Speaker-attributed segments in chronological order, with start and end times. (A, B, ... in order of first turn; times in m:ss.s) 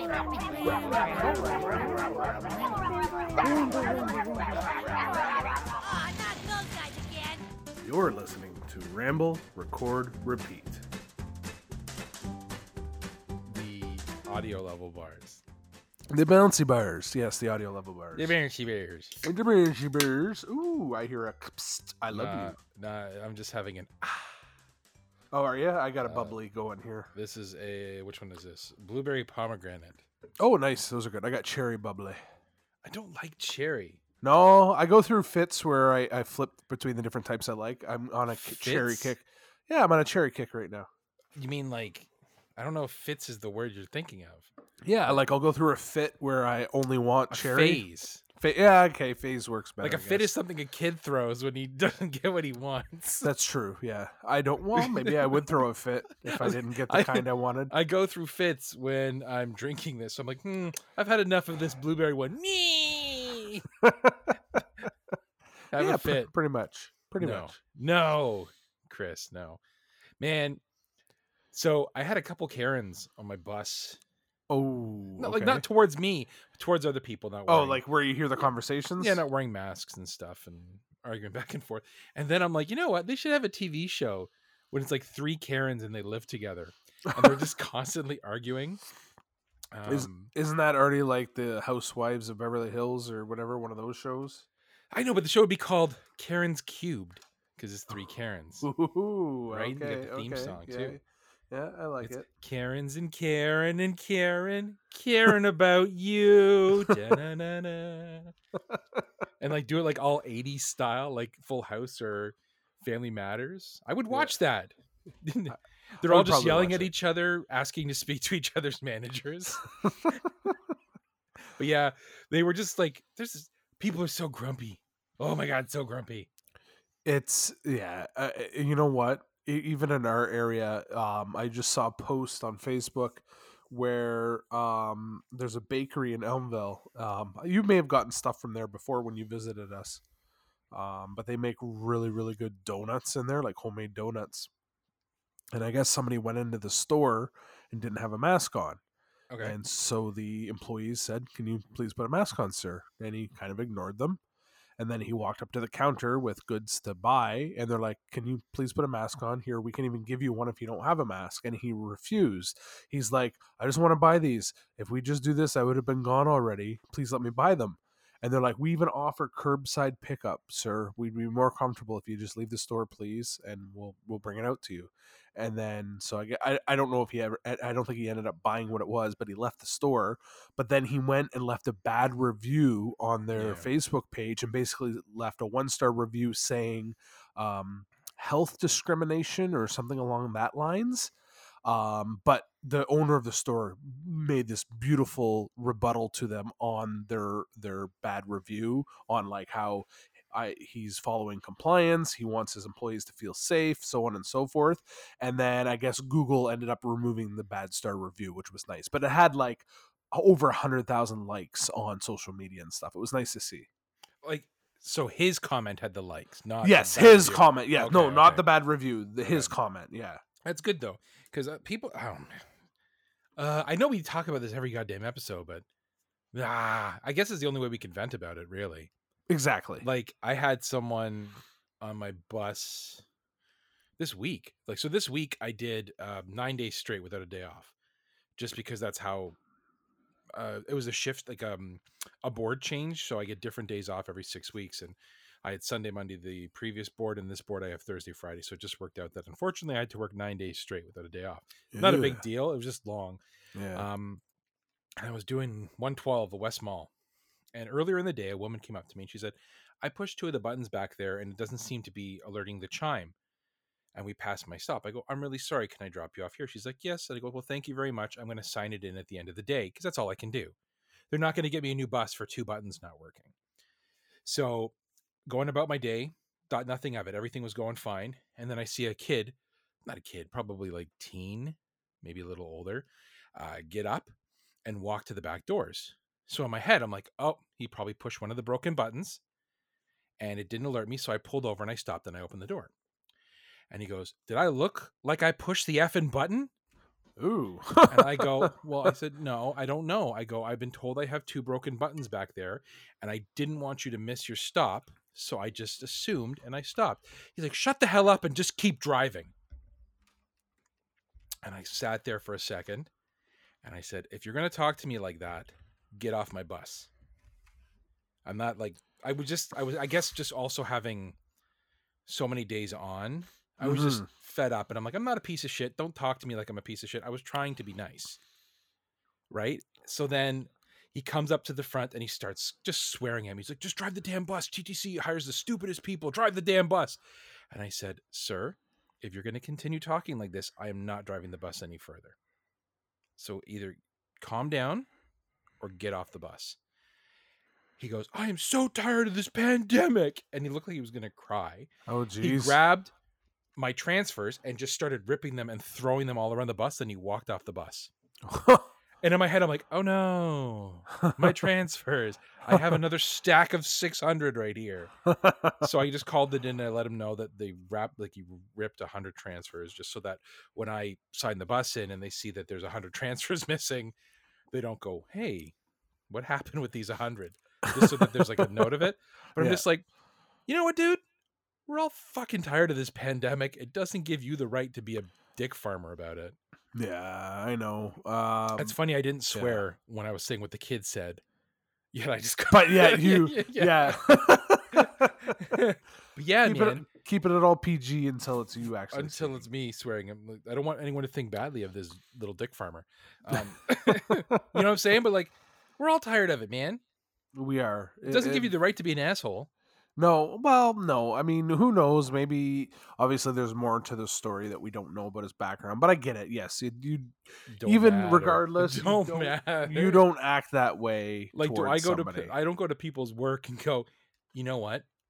0:00.6-0:01.5 A
0:05.8-0:07.4 A
0:07.8-0:10.9 B
0:13.4-0:15.4 C
0:16.1-0:18.4 B
0:18.2-0:19.2 C
0:19.2-0:22.6 B
0:22.1-0:24.4 C
0:25.3-0:27.1 B
0:26.0-0:26.4 C
0:27.1-0:30.0 C
0:30.4-0:32.2 B
0:32.8-0:34.0 C
0:34.2-0:40.9 B
0:38.4-0:39.1 C
0:41.4-0:44.5 C
0:44.8-0:47.8 B
0:47.3-0:48.2 C
0:48.4-0:50.3 B
0:49.8-0:53.3 C
0:53.2-0:57.7 B
0:54.8-0:55.5 C
0:56.2-1:03.7 C
1:03.8-1:04.4 B
1:05.7-1:06.3 C
1:05.8-1:07.6 B
1:07.2-1:09.6 C
1:10.2-1:10.6 C
1:11.5-1:14.0 C
1:14.5-1:15.6 B
1:15.2-1:17.8 C
1:17.5-1:19.2 B
1:19.0-1:28.8 C
1:27.1-1:27.4 B
1:29.7-1:30.3 C
1:29.9-1:34.4 B
1:34.9-1:38.7 C
1:38.6-1:42.3 B
1:39.5-1:41.0 C
1:42.0-1:48.3 C
1:46.8-1:47.2 B
1:49.4-2:00.2 C
1:56.0-1:56.9 B
2:01.6-2:06.3 C
2:07.0-2:20.0 B
2:20.7-2:24.5 B
2:25.5-2:28.8 B
2:29.3-2:29.6 C
2:29.4-2:34.2 B
2:34.8-3:11.1 B
3:03.4-3:03.7 C
3:11.6-3:33.7 B
3:34.2-3:38.5 C
3:36.6-3:40.2 B
3:39.2-3:39.5 C
3:40.4-3:42.4 C
3:43.4-3:45.6 C
3:46.3-3:48.9 C
3:49.3-3:49.8 B
3:49.8-3:53.0 C
3:54.0-3:57.7 C
3:58.4-3:59.4 C
4:00.4-4:13.2 C
4:11.7-4:12.2 B
4:13.6-4:13.9 B
4:13.7-4:14.2 C
4:15.0-4:16.9 C
4:17.5-4:23.1 C
4:24.0-4:30.6 C
4:31.1-4:33.3 C
4:34.2-4:34.7 C
4:35.3-4:44.1 C
4:44.7-4:49.2 C
4:50.2-4:52.7 C
4:53.7-4:56.5 C
4:57.2-4:58.5 B
4:57.9-5:09.3 C
5:11.4-5:12.9 C
5:13.6-5:16.9 C
5:18.2-5:21.2 C
5:22.1-5:28.2 C
5:23.6-5:24.1 B
5:29.3-5:37.0 C
5:37.5-5:42.2 C
5:43.2-5:44.9 C
5:45.6-5:46.6 C
5:47.8-5:51.7 C
5:51.9-5:52.6 B
5:52.2-5:52.9 C
5:53.6-5:57.9 C
5:58.3-5:58.7 B
5:59.0-6:04.9 C
6:01.0-6:01.4 B
6:02.5-6:02.8 B
6:05.1-6:05.7 B
6:05.6-6:14.0 C
6:14.5-6:15.5 C
6:16.1-6:19.9 C
6:17.7-6:18.6 B
6:19.4-6:19.6 B
6:20.5-6:21.0 C
6:21.7-6:26.4 C
6:26.8-6:28.8 B
6:28.6-6:31.2 C
6:29.3-6:29.6 B
6:31.9-6:36.9 C
6:32.5-6:35.4 B
6:36.4-6:39.4 B
6:38.9-6:46.8 C
6:43.3-6:44.6 B
6:47.3-6:48.5 B
6:48.1-6:49.5 C
6:50.0-7:02.3 B
6:57.5-7:00.0 C
7:01.4-7:04.9 C